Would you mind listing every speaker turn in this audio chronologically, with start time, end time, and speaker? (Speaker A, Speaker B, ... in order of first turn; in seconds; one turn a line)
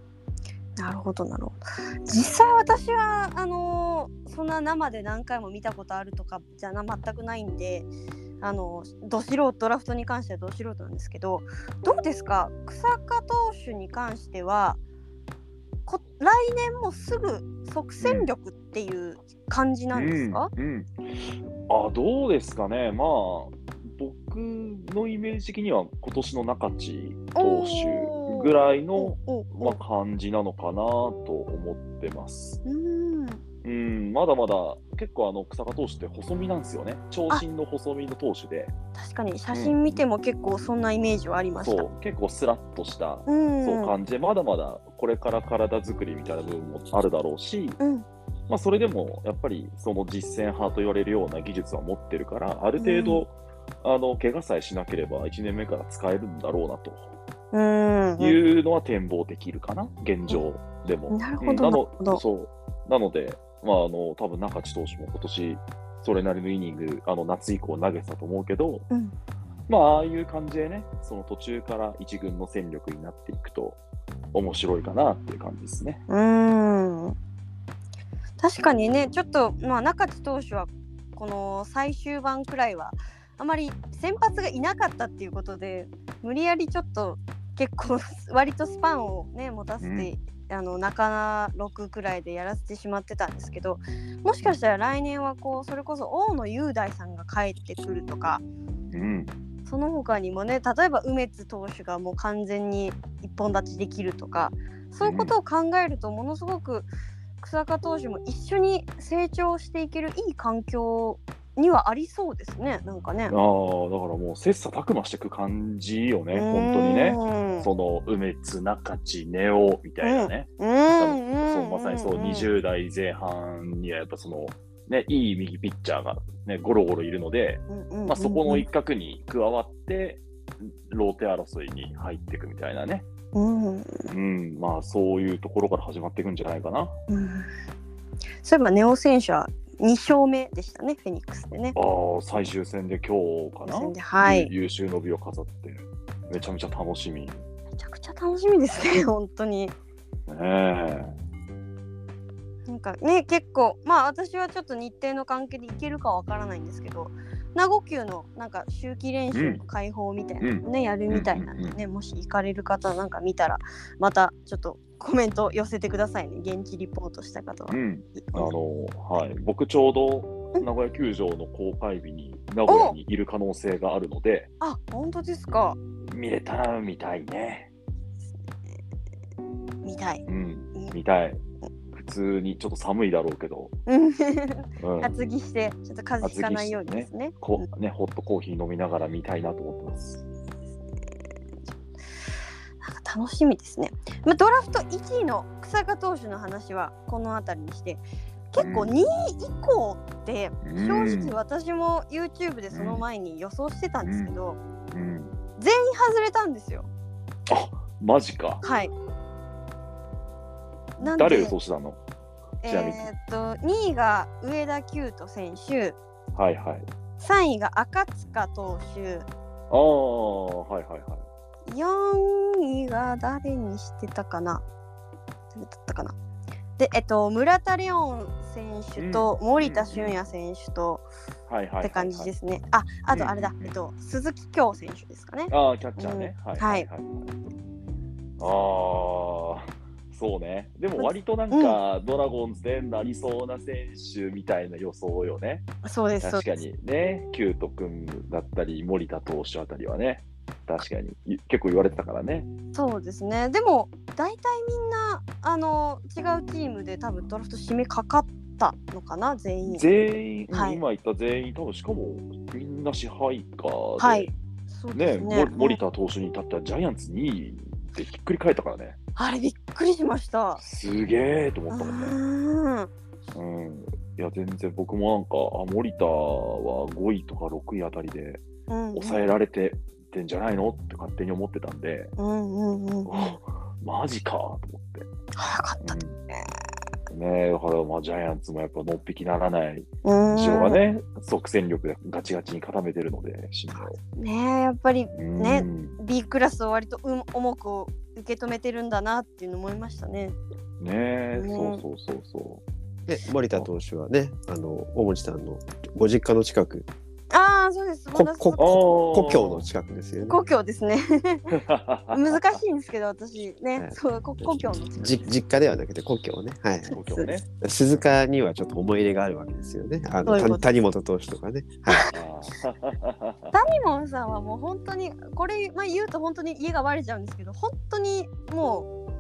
Speaker A: 0.8-7.9
Speaker A: 8.4-14.8
Speaker A: 15.9-20.5
Speaker B: 18.0-18.3
Speaker B: 19.9-20.9
Speaker B: 21.7-32.6
Speaker A: 27.4-29.8
Speaker A: 32.6-33.4
Speaker B: 33.6-38.7
Speaker A: 39.0-41.9
Speaker B: 39.5-40.0
Speaker B: 41.6-47.8
Speaker A: 43.3-43.9
Speaker A: 47.8-48.1
Speaker B: 48.5-57.2
Speaker A: 52.8-53.2
Speaker A: 57.5-58.4
Speaker B: 58.2-68.9
Speaker A: 61.1-62.2
Speaker B: 69.7-73.8
Speaker B: 74.3-76.0
Speaker A: 76.1-77.2
Speaker A: 78.4-98.4
Speaker B: 89.8-90.1
Speaker B: 98.9-99.3
Speaker A: 99.7-106.9
Speaker B: 105.0-105.3
Speaker A: 107.4-113.3
Speaker B: 113.3-133.1
Speaker A: 116.3-117.7
Speaker A: 120.0-122.5
Speaker A: 127.7-128.7
Speaker A: 133.3-134.1
Speaker B: 134.1-136.9
Speaker A: 137.1-137.5
Speaker A: 138.4-141.8
Speaker B: 141.8-147.4
Speaker A: 143.7-144.5
Speaker A: 147.8-149.7
Speaker B: 150.3-151.1
Speaker A: 152.7-168.5
Speaker B: 159.3-159.6
Speaker B: 160.4-161.8
Speaker B: 167.7-174.5
Speaker A: 172.7-173.0
Speaker A: 174.6-175.8
Speaker B: 176.1-177.7
Speaker A: 179.8-180.2
Speaker B: 180.3-181.4
Speaker B: 181.9-183.7
Speaker A: 183.9-187.7
Speaker B: 184.8-185.1
Speaker B: 186.2-190.2
Speaker A: 192.8-204.6
Speaker B: 198.6-199.0
Speaker B: 200.6-201.4
Speaker B: 202.7-203.0
Speaker B: 204.0-204.3
Speaker B: 204.9-205.3
Speaker A: 205.6-206.9
Speaker B: 207.5-208.6
Speaker A: 208.6-208.9
Speaker A: 211.0-211.6
Speaker B: 211.0-212.0
Speaker A: 212.6-216.0
Speaker B: 212.7-213.1
Speaker B: 216.3-216.9
Speaker A: 217.2-219.3
Speaker B: 219.7-221.2
Speaker A: 221.7-224.6
Speaker A: 225.5-226.2
Speaker A: 226.8-231.0
Speaker B: 229.0-230.2
Speaker B: 231.5-232.3
Speaker A: 231.8-236.9
Speaker B: 233.1-233.8
Speaker B: 235.5-237.3
Speaker B: 238.4-245.7
Speaker A: 241.0-241.8
Speaker A: 245.8-246.5
Speaker B: 246.2-252.5
Speaker A: 252.7-259.8
Speaker B: 259.6-264.3
Speaker A: 260.5-260.8
Speaker A: 264.0-265.8
Speaker B: 264.9-269.0
Speaker A: 269.2-270.6
Speaker B: 270.6-272.2
Speaker A: 271.7-272.9
Speaker B: 273.3-282.1
Speaker A: 278.7-279.2
Speaker A: 282.2-283.4
Speaker B: 283.1-285.1
Speaker A: 285.4-286.5
Speaker B: 285.8-286.2
Speaker B: 287.1-294.0
Speaker A: 290.1-290.8
Speaker A: 293.7-300.4
Speaker B: 295.1-296.0
Speaker B: 300.8-302.6
Speaker A: 301.4-301.8
Speaker C: 303.1-306.9
Speaker A: 307.3-308.8
Speaker C: 308.1-310.4
Speaker B: 308.6-309.6
Speaker A: 310.3-311.6
Speaker B: 311.5-312.6
Speaker A: 312.1-315.3
Speaker C: 313.8-317.0
Speaker A: 316.9-317.3
Speaker B: 316.9-317.5
Speaker C: 317.6-322.1
Speaker A: 320.2-320.6
Speaker B: 322.1-323.5
Speaker A: 323.5-328.9